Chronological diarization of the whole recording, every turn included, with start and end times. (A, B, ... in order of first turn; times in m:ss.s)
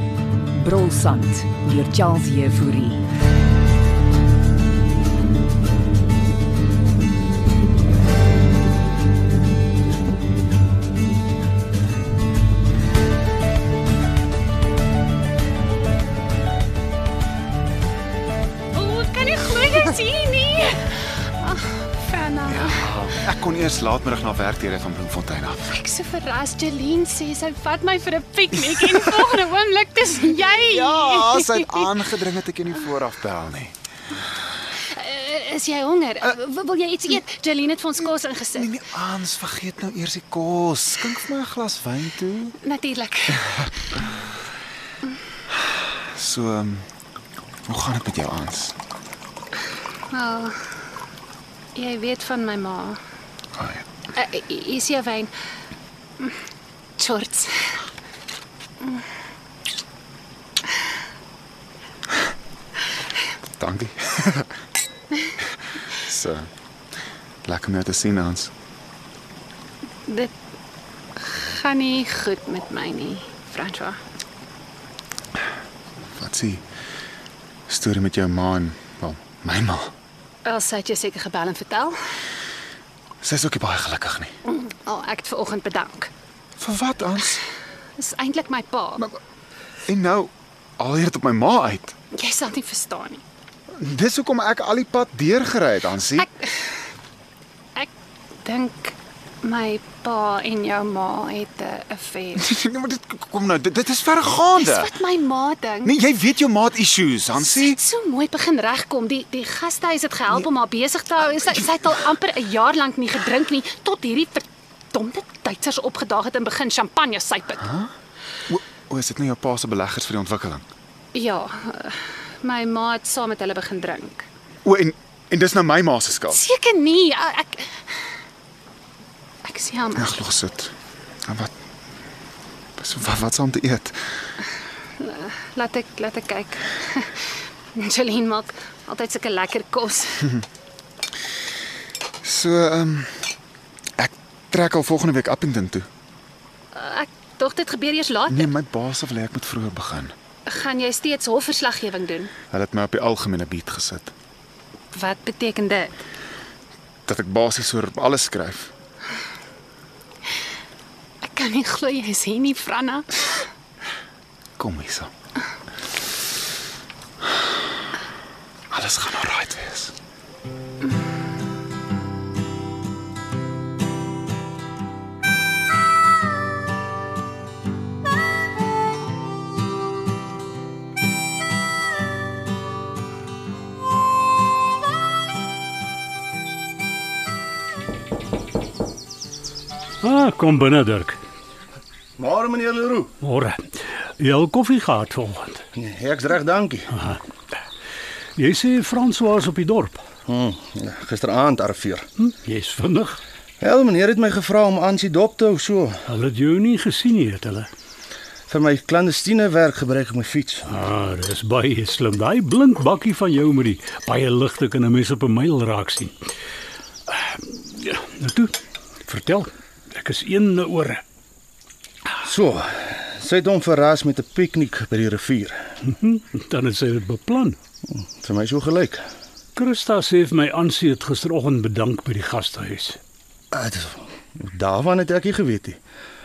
0:00.6-0:03.0 A
0:18.7-0:22.9 B
0:22.5-0:25.8 C
0:25.7-0:31.9 B
0:30.6-0:33.8 C
0:34.8-0:38.7 B
0:38.5-0:42.6 C
0:42.6-0:43.5 B
0:43.5-0:44.3 C
0:46.1-0:46.9 C
0:47.7-0:48.8 C
0:50.1-0:50.6 B
0:51.8-0:53.0 B
0:53.6-0:53.8 C
0:54.1-0:55.3 B
0:57.0-0:57.8 B
1:03.6-1:04.5 C
1:05.9-1:06.5 C
1:07.4-1:08.5 C
1:10.1-1:10.3 B
1:11.2-1:14.0 B
1:16.2-1:16.6 C
1:17.7-1:19.9 C
1:20.4-1:22.0 B
1:23.2-1:24.3 C
1:24.5-1:26.1 B
1:26.6-1:27.4 C
1:28.0-1:29.0 B
1:29.9-1:32.0 C
1:32.1-1:33.2 B
1:33.8-1:36.3 C
1:36.2-1:36.7 B
1:38.4-1:42.4 B
1:42.4-1:44.9 C
1:44.6-1:45.9 B
1:45.8-1:47.8 C
1:47.4-1:57.7 B
1:57.6-1:57.9 C
1:58.5-2:00.6 C
2:01.1-2:04.3 B
2:04.6-2:06.4 C
2:06.3-2:07.8 B
2:09.4-2:10.2 B
2:10.0-2:10.7 C
2:11.3-2:11.5 C
2:12.8-2:14.1 C
2:15.0-2:20.3 B
2:22.2-2:23.3 C
2:24.0-2:25.9 C
2:26.7-2:28.5 B
2:28.3-2:30.1 C
2:30.5-2:32.3 B
2:32.5-2:34.1 C
2:34.9-2:36.0 B
2:37.1-2:38.7 C
2:41.2-2:43.4 B
2:44.6-2:45.1 C
2:48.7-2:49.9 C
3:10.0-3:11.2 D
3:12.2-3:13.1 E
3:13.2-3:15.6 D
3:15.8-3:16.9 E
3:16.9-3:17.2 D
3:18.4-3:20.1 D
3:20.3-3:22.1 E
3:22.2-3:23.2 D
3:23.6-3:26.0 E
3:26.1-3:27.7 D
3:28.5-3:30.7 E
3:30.7-3:36.2 D
3:37.1-3:38.5 D
3:39.1-3:41.0 D
3:42.2-3:45.7 E
3:45.9-3:47.6 D
3:47.9-3:49.0 E
3:49.6-3:53.0 D
3:53.5-3:55.8 E